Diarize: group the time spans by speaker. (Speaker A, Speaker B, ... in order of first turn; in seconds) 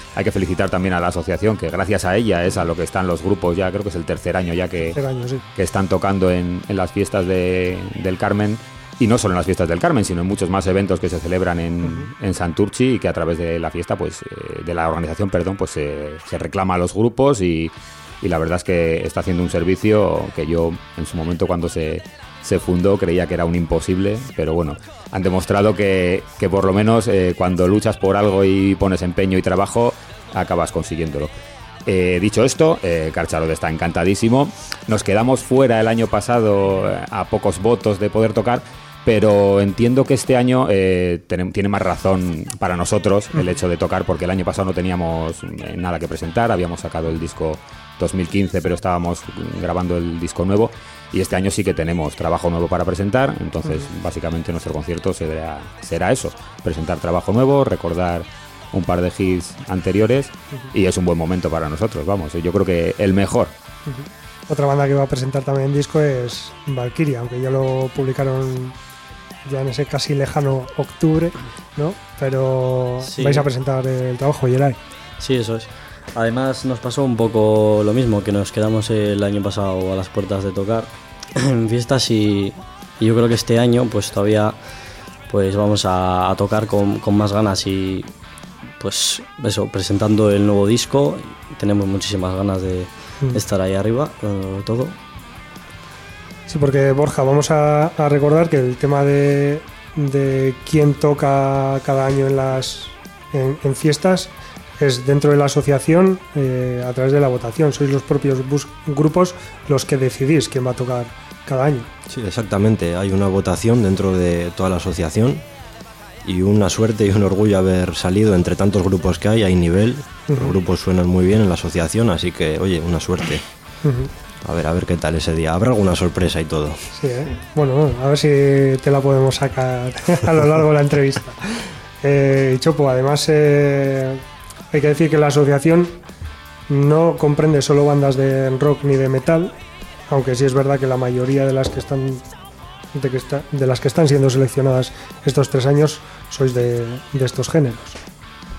Speaker A: 0.1-5.0, 5.5-31.3, 31.9-63.5
Speaker B: 4.9-5.5, 11.8-12.1, 43.3-43.6, 63.9-68.8, 69.5-74.8, 96.5-111.9, 120.3-120.5, 123.8-124.1, 126.9-136.0, 136.7-139.5, 140.1-142.2, 142.9-148.0
Speaker C: 73.1-73.5, 75.2-84.6, 85.3-88.1, 88.8-95.0
Speaker D: 112.1-115.4, 116.2-123.4, 124.4-126.8